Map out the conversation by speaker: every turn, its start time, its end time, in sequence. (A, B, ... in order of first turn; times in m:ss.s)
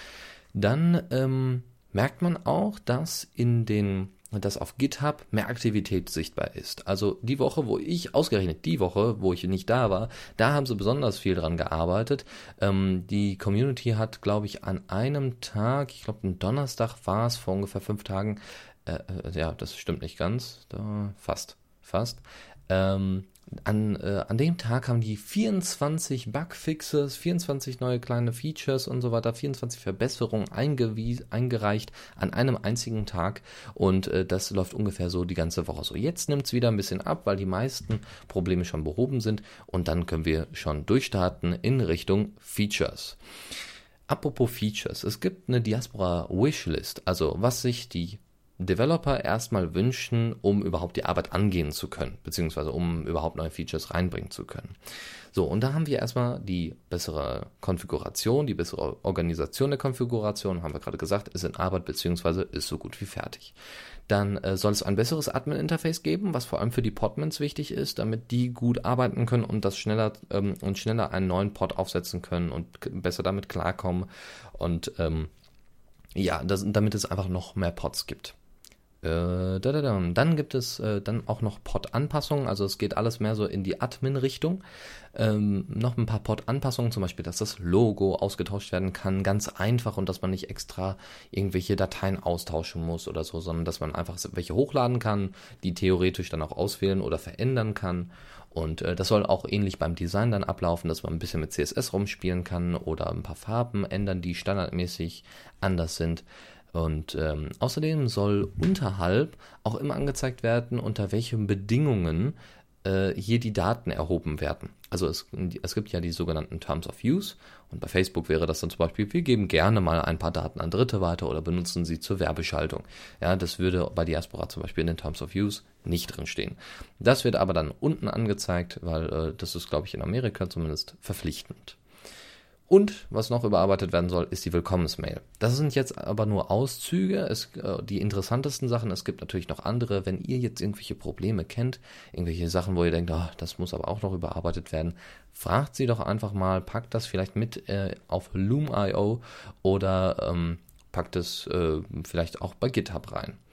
0:00.5-0:43.2 A
0:44.1-0:54.8 A
0:55.3-1:03.6 A
1:04.1-1:15.3 A
1:16.2-1:18.4 A
1:19.0-1:24.6 A
1:25.1-2:11.8 A
2:12.7-2:33.4 A